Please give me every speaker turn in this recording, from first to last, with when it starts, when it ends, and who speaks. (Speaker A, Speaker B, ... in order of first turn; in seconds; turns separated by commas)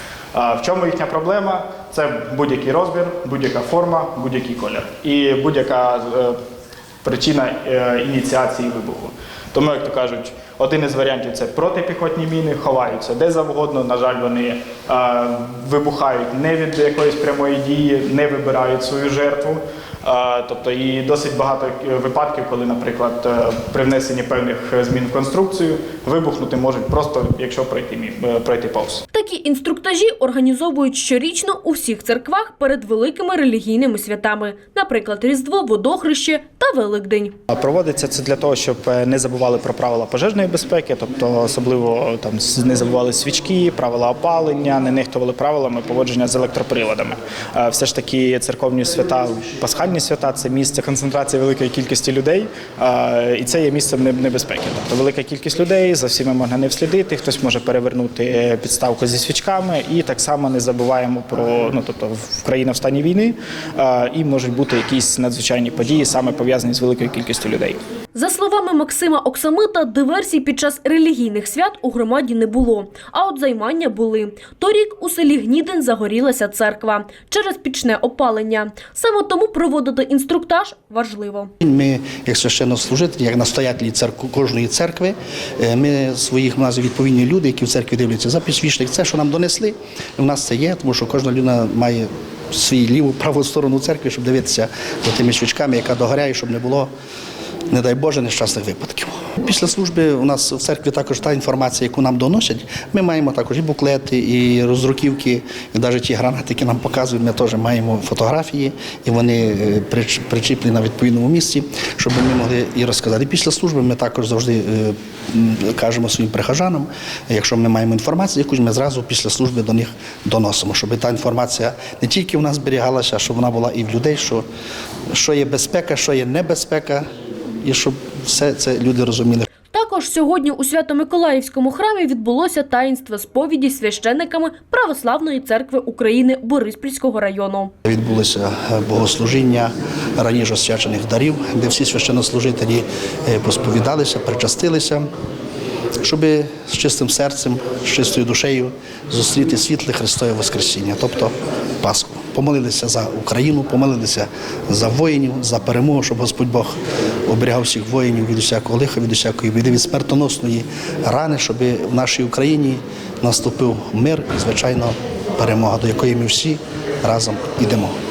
Speaker A: 0.3-6.4, Speaker A: 7.0-29.0, Speaker B: 29.1-37.4, Speaker A: 37.5-67.8, Speaker B: 68.2-81.5, Speaker C: 81.6-96.9, Speaker C: 97.7-124.5, Speaker C: 125.1-127.1, Speaker C: 127.6-129.5, Speaker B: 129.7-137.7, Speaker C: 137.8-145.1, Speaker C: 146.0-156.8, Speaker C: 157.3-167.9